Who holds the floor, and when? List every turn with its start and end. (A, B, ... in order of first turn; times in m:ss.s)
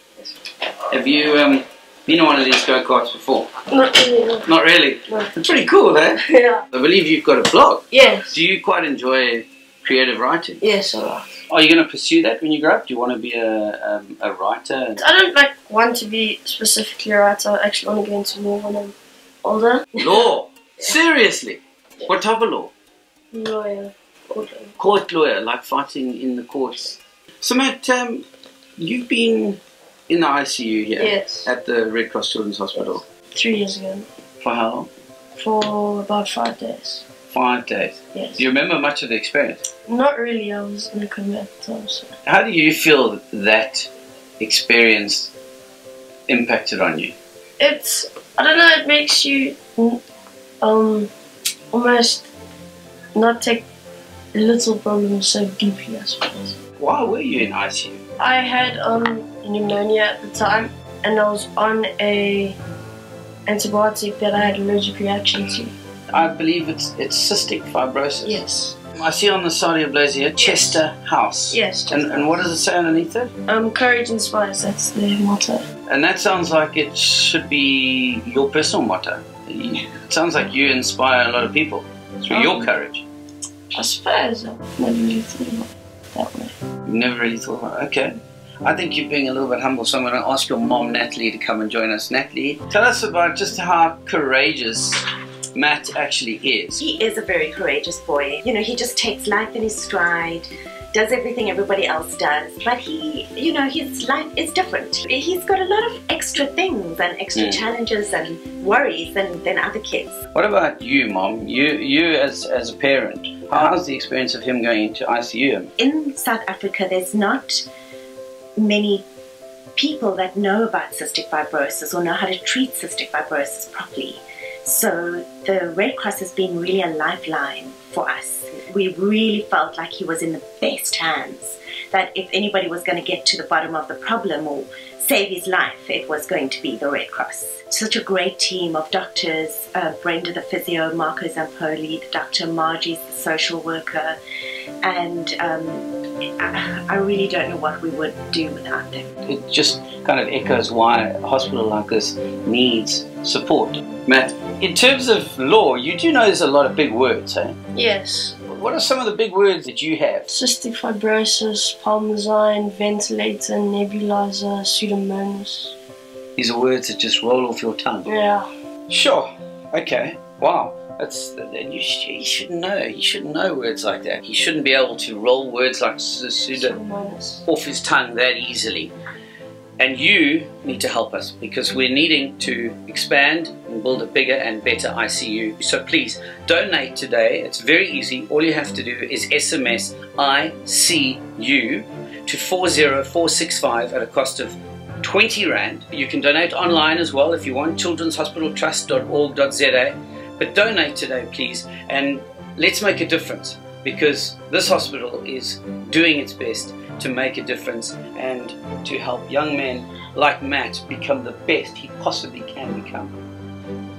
0:00.9-0:03.5 A
0:03.7-0:04.5 B
0:04.4-0:06.2 A
0:06.2-0:06.6 B
0:06.7-0:10.6 A
0:07.9-0:08.4 B
0:10.6-0:11.4 B
0:11.5-0:15.0 A
0:15.0-0:20.3 B
0:20.0-0:22.7 A
0:23.3-0:24.7 B
0:24.8-0:28.2 A
0:28.8-0:33.0 A
0:31.0-0:31.5 B
0:32.8-0:34.1 B
0:34.4-0:34.9 A
0:35.3-0:37.0 B
0:37.3-0:39.6 A
0:38.1-0:38.4 B
0:39.9-0:42.1 B
0:42.2-0:43.9 A
0:44.4-0:45.3 A
0:46.3-0:47.1 A
0:47.6-0:50.0 B
0:50.6-0:51.1 B
0:51.7-0:52.3 B
0:53.1-0:53.6 B
0:54.3-0:56.6 B
0:56.8-0:58.0 A
0:58.2-1:02.6 B
1:03.4-1:05.7 B
1:06.1-1:08.4 A
1:08.2-1:08.8 B
1:08.9-1:13.3 A
1:10.4-1:10.8 B
1:11.5-1:12.4 B
1:13.4-1:15.6 B
1:15.9-1:23.0 A
1:22.3-1:22.7 B
1:23.7-1:26.5 B
1:26.8-1:35.0 A
1:35.5-1:36.8 A
1:36.8-1:50.2 C
1:47.3-1:47.6 A
1:50.3-1:55.7 A
1:55.8-1:57.6 C
1:58.6-1:59.0 C
1:59.8-2:24.2 C
2:24.8-2:25.9 C
2:26.4-2:29.1 C
2:29.2-2:37.6 A
2:37.7-2:38.4 B
2:38.4-2:40.2 A
2:40.3-2:45.7 B
2:46.4-2:48.1 A
2:48.0-2:48.5 B
2:48.9-2:56.8 A
2:56.5-2:57.4 B
2:57.4-2:58.9 A
2:59.8-3:33.1 A